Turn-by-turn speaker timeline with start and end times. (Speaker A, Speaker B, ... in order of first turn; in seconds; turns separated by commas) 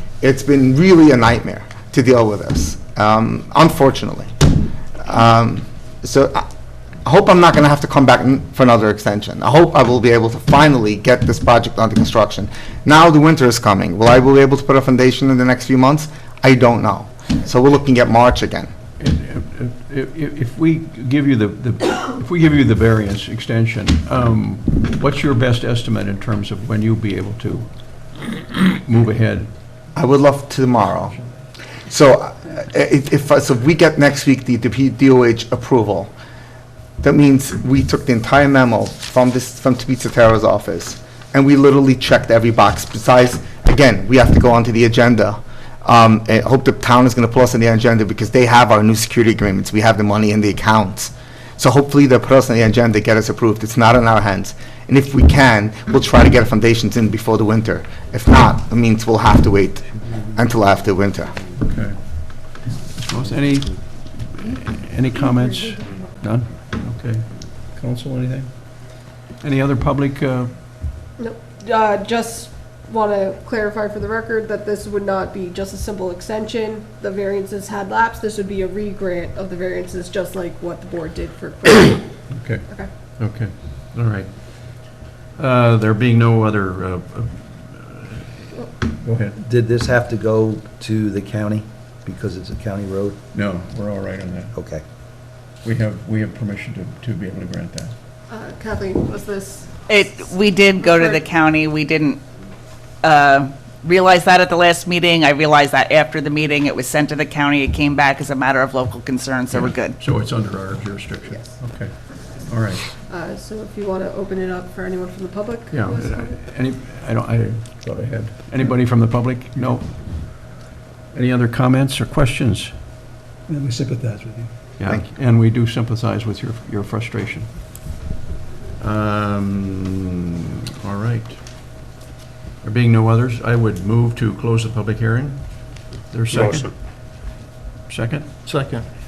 Speaker A: 0.2-4.4, Speaker A: 5.0-6.5, Speaker A: 7.0-18.7, Speaker B: 19.0-29.5, Speaker A: 29.9-31.1, Speaker A: 31.9-36.1, Speaker A: 37.0-61.3, Speaker B: 61.6-68.7, Speaker B: 69.4-70.5, Speaker C: 71.2-82.9, Speaker B: 82.3-82.7, Speaker B: 83.2-88.4, Speaker B: 89.0-89.4, Speaker D: 89.4-93.2, Speaker B: 93.3-94.5, Speaker D: 94.5-94.8, Speaker B: 95.6-97.9, Speaker C: 98.3-101.3, Speaker E: 99.9-102.2, Speaker E: 103.0-110.0, Speaker B: 109.5-112.9, Speaker C: 113.0-116.4, Speaker B: 115.7-120.5, Speaker B: 121.1-122.8, Speaker F: 123.5-124.5, Speaker B: 124.8-127.6, Speaker A: 124.8-125.1, Speaker B: 128.8-130.1, Speaker B: 130.8-131.4, Speaker B: 132.6-137.3, Speaker F: 136.3-136.7, Speaker B: 137.9-138.5, Speaker F: 138.4-138.9